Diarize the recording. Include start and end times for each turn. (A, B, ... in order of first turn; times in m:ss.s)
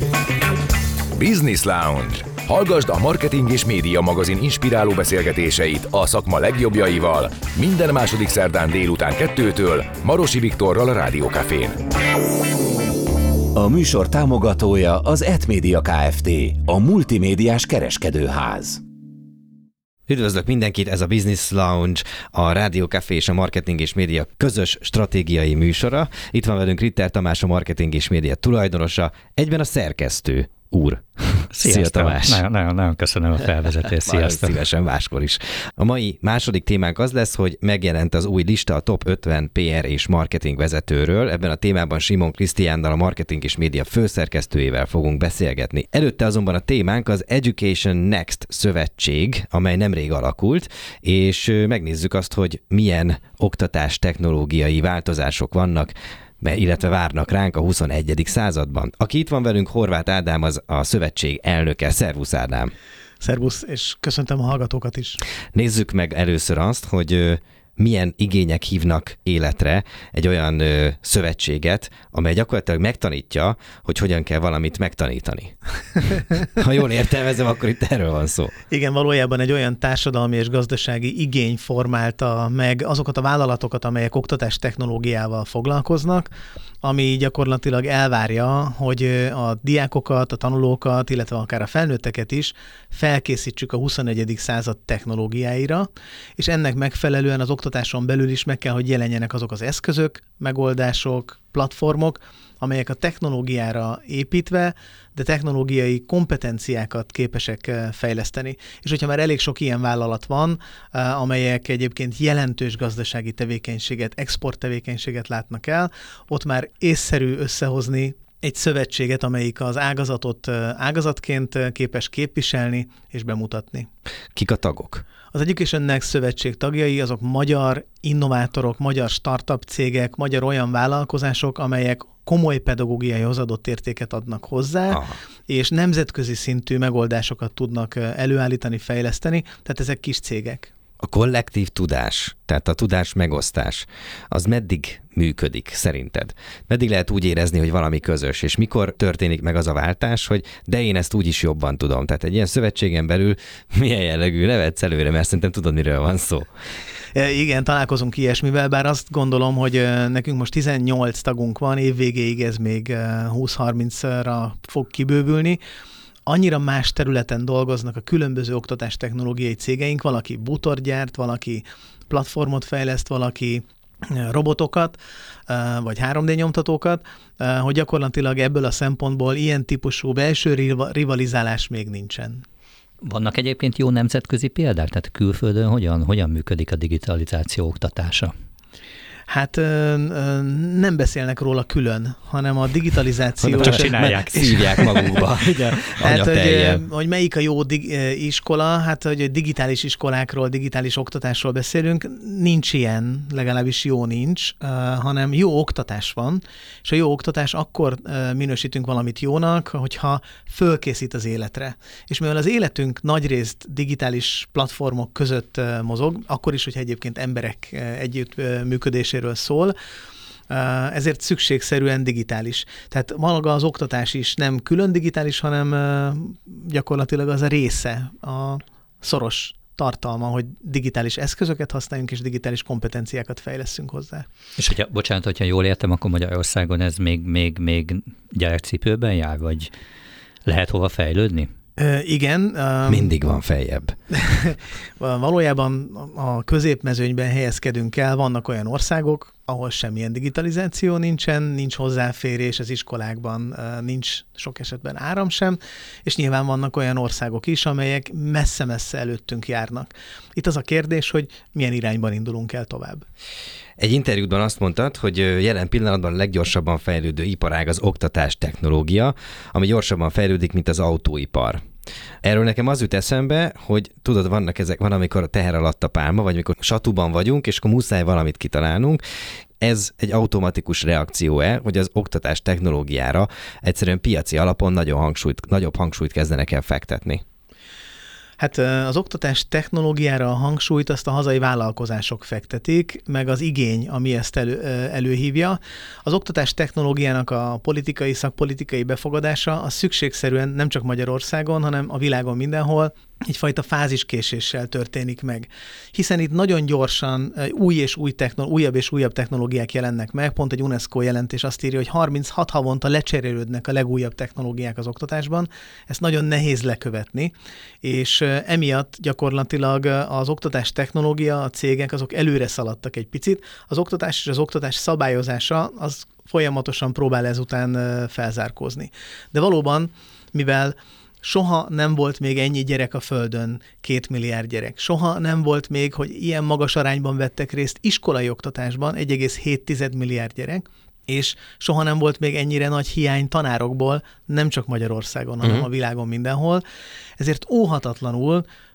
0:01.1-0:11.8 A
0:13.6-0:18.8 A
0:20.1-0:32.4 B
0:31.5-0:34.6 C
0:34.0-1:02.7 B
1:03.2-1:05.2 D
1:05.6-1:15.5 B
1:16.4-1:18.5 B
1:18.7-1:26.3 D
1:26.8-2:03.9 D
2:04.3-2:05.0 B
2:05.3-2:20.7 D
2:21.0-2:36.5 B
2:37.2-2:45.6 D
2:46.3-3:02.4 D
3:03.0-3:08.3 C
3:09.3-3:15.1 D
3:13.4-3:16.8 B
3:13.5-3:14.9 C
3:16.0-3:39.8 D
3:40.5-3:54.3 D
3:54.6-3:59.7 C
4:00.5-4:01.5 C
4:01.8-4:03.1 D
4:02.9-4:04.0 B
4:04.2-4:23.0 D
4:23.8-4:31.6 B
4:32.2-4:39.0 B
4:39.6-4:47.2 B
4:48.4-5:46.6 D
5:47.2-5:48.4 D